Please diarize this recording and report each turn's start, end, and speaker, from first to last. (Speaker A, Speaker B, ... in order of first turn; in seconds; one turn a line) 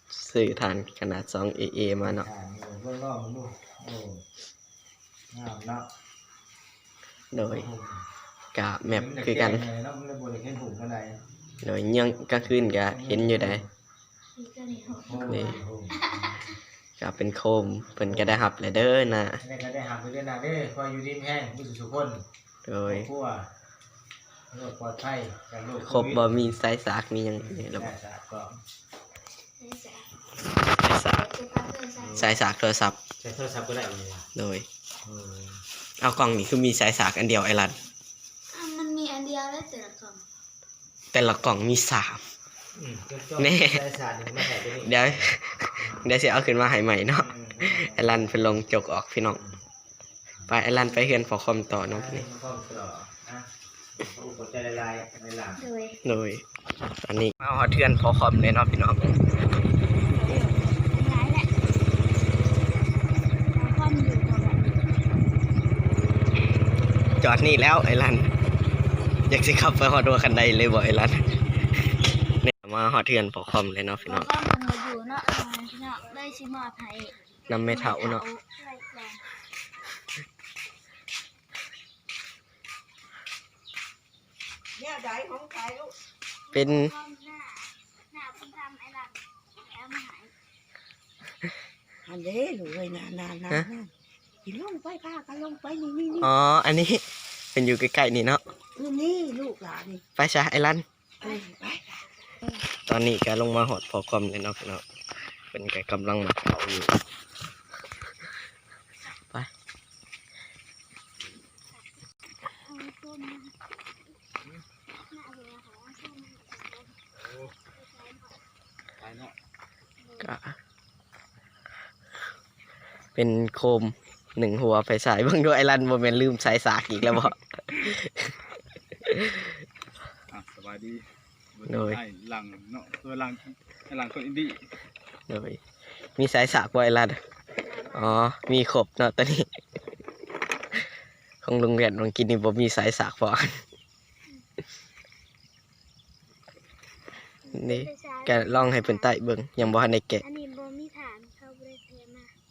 Speaker A: 0.1-2.2
Speaker B: 2.0-4.2
Speaker B: 5.3-5.9
Speaker A: 7.3-7.7
Speaker B: 7.5-8.0
Speaker A: 8.5-9.7
Speaker B: 8.8-11.2
Speaker A: 11.6-13.6
Speaker B: 12.8-13.7
Speaker C: 14.3-16.3
Speaker B: 15.0-16.4
Speaker A: 15.2-15.6
Speaker A: 17.0-19.4
Speaker B: 18.1-18.4
Speaker B: 19.4-22.2
Speaker A: 22.6-23.1
Speaker B: 22.9-23.5
Speaker B: 24.5-26.4
Speaker A: 25.8-27.9
Speaker B: 27.5-28.6
Speaker C: 29.6-30.1
Speaker A: 30.7-31.3
Speaker C: 31.1-32.1
Speaker B: 32.0-32.3
Speaker A: 32.1-33.0
Speaker B: 33.2-34.3
Speaker A: 34.3-34.6
Speaker B: 35.0-35.6
Speaker A: 36.0-37.8
Speaker C: 38.5-40.2
Speaker A: 41.1-42.2
Speaker B: 42.7-46.1
Speaker A: 43.4-43.8
Speaker A: 44.8-49.4
Speaker B: 47.2-48.4
Speaker A: 50.5-52.2
Speaker B: 51.8-55.6
Speaker C: 55.6-56.0
Speaker A: 56.0-56.4
Speaker A: 57.0-59.1
Speaker C: 60.1-61.5
Speaker C: 63.5-64.8
Speaker A: 67.2-68.3
Speaker A: 69.3-71.2
Speaker A: 72.4-74.3
Speaker C: 74.0-77.1
Speaker A: 77.5-78.2
Speaker C: 77.7-79.2
Speaker D: 84.8-85.9
Speaker A: 86.5-86.9
Speaker C: 86.5-90.3
Speaker D: 92.0-93.9
Speaker D: 94.4-96.3
Speaker A: 96.2-98.4
Speaker D: 98.8-100.0
Speaker A: 100.2-100.8
Speaker D: 101.2-102.0
Speaker A: 102.8-104.8
Speaker A: 105.5-106.9
Speaker C: 112.6-113.5
Speaker C: 115.1-116.9
Speaker E: 117.2-117.5
Speaker C: 117.7-118.3
Speaker E: 119.0-119.4
Speaker C: 120.0-120.3
Speaker A: 120.2-120.5
Speaker A: 123.1-128.3
Speaker A: 129.0-129.5
Speaker E: 130.3-131.0
Speaker E: 131.5-134.6
Speaker A: 131.7-132.0
Speaker A: 135.3-135.6
Speaker A: 136.2-137.2
Speaker C: 137.7-138.2
Speaker A: 137.9-139.5
Speaker A: 141.4-143.6
Speaker C: 147.4-149.1
Speaker A: 147.5-150.2
Speaker C: 150.2-152.3